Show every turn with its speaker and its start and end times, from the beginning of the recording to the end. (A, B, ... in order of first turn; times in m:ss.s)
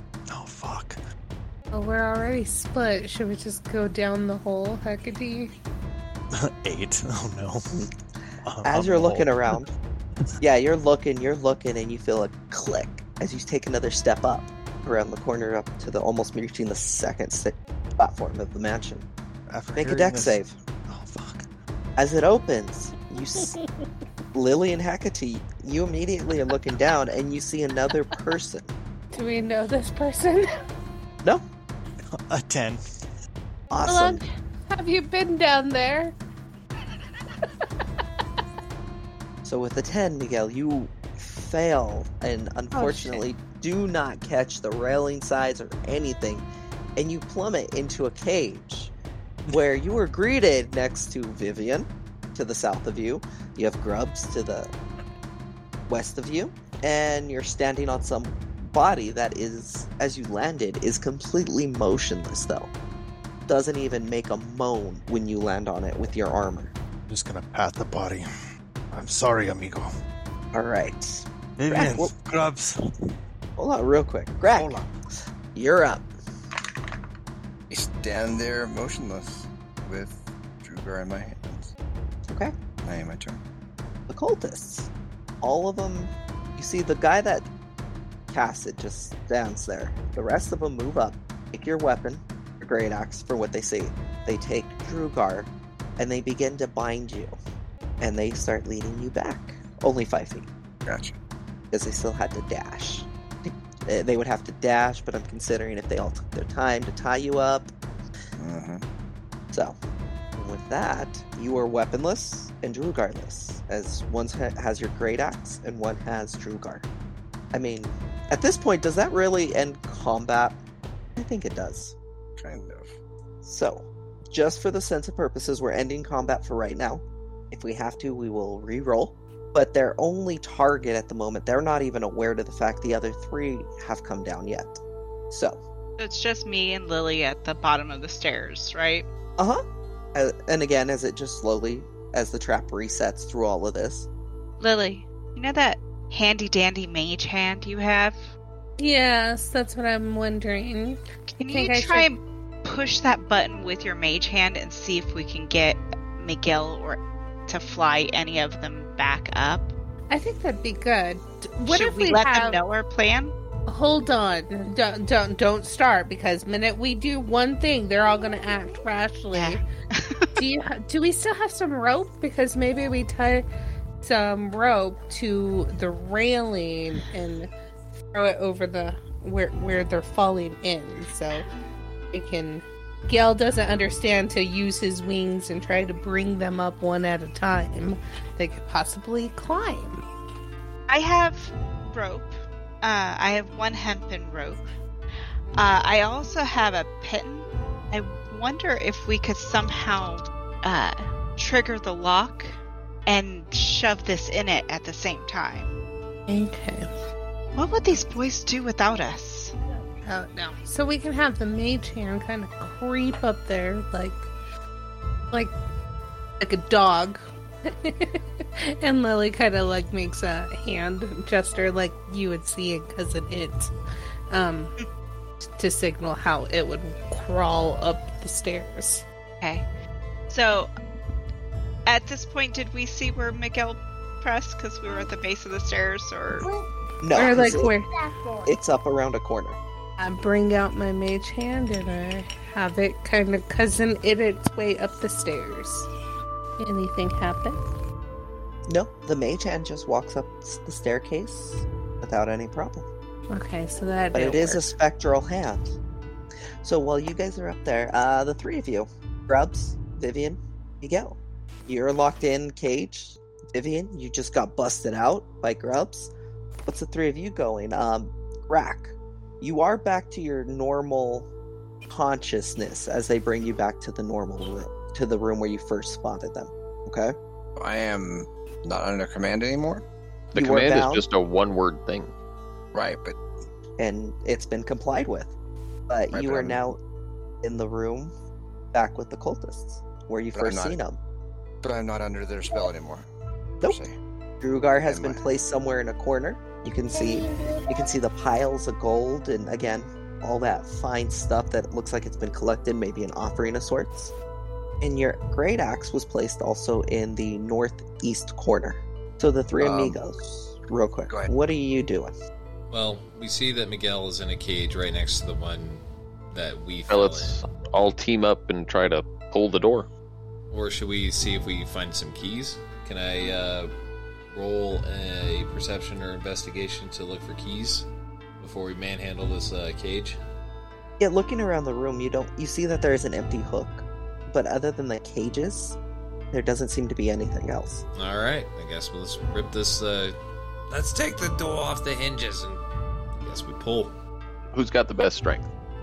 0:00.3-0:01.0 A
0:01.7-0:05.5 B
0:06.3-0:07.6 A
0:08.4-0:09.6 A
0:08.6-0:09.7 C
0:10.4-0:19.1 C
0:19.5-0:21.5 A
0:19.8-0:20.5 C
0:22.0-0:23.6 C
0:24.3-0:28.7 C
0:29.1-0:30.5 B
0:32.2-0:32.8 A
0:33.7-0:34.2 C
0:33.8-0:36.2 B
0:39.4-0:48.9 C
0:42.7-0:43.2 B
0:49.5-0:54.7 C
0:55.9-1:02.7 C
1:03.5-1:06.7 C
1:07.1-1:08.3 A
1:08.9-1:09.9 A
1:10.5-1:12.1 C
1:11.6-1:12.7 A
1:13.6-1:14.8 C
1:14.6-1:14.9 A
1:15.6-1:16.1 C
1:17.7-1:21.7 D
1:22.3-1:22.5 C
1:22.8-1:23.4 D
1:24.1-1:24.9 C
1:25.4-1:27.5 C
1:28.3-1:37.3 C
1:38.0-1:40.5 C
1:40.8-1:41.2 D
1:41.7-1:47.7 C
1:48.4-1:48.8 D
1:50.4-1:56.8 C
1:57.5-2:00.6 C
2:01.2-2:02.0 C
2:02.4-2:03.0 D
2:03.4-2:14.8 C
2:15.3-2:15.6 C
2:16.0-2:19.1 E
2:20.1-2:24.1 C
2:24.6-2:28.3 E
2:28.8-2:32.1 B
2:31.4-2:39.7 E
2:40.1-2:42.6 B
2:41.7-2:43.4 E
2:43.7-2:49.6 B
2:49.3-2:50.3 E
2:50.4-2:53.5 B
2:54.0-2:57.5 B
2:58.1-3:01.5 B
3:02.1-3:10.0 B
3:10.9-3:14.6 E
3:15.6-3:25.7 E
3:26.3-3:26.9 B
3:27.6-3:29.5 E
3:30.0-3:34.3 B
3:36.4-3:43.7 B
3:44.3-3:44.7 B
3:45.6-3:49.0 B
3:49.4-3:49.7 E
3:50.3-3:50.7 E
3:51.9-3:56.5 E
3:57.0-3:57.7 C
3:57.1-3:58.4 B
3:58.5-3:59.6 C
4:00.0-4:05.9 B
4:06.6-4:07.6 B
4:08.7-4:12.9 C
4:13.3-4:14.7 B
4:14.1-4:15.8 C
4:16.6-4:21.2 C
4:21.7-4:26.1 C
4:26.7-4:31.3 C
4:31.9-4:37.2 C
4:37.6-4:39.9 D
4:40.3-4:42.1 F
4:40.4-4:41.0 C
4:42.7-4:43.2 D
4:43.8-4:45.3 C
4:45.9-4:46.8 C
4:46.1-4:46.6 D
4:47.4-4:48.1 C
4:48.7-4:51.0 C
4:50.4-4:50.8 D
4:51.6-4:53.1 D
4:53.6-4:54.0 D
4:54.4-5:04.1 C
4:54.8-4:55.2 D
5:04.8-5:12.2 C
5:09.6-5:10.0 D
5:12.7-5:17.4 G
5:16.9-5:19.9 F
5:20.5-5:23.7 G
5:24.3-5:27.9 G
5:28.4-5:30.2 G
5:31.0-5:35.8 C
5:36.3-5:37.8 C
5:38.0-5:40.2 G
5:40.7-5:42.6 G
5:43.2-5:43.9 G
5:44.5-5:45.5 F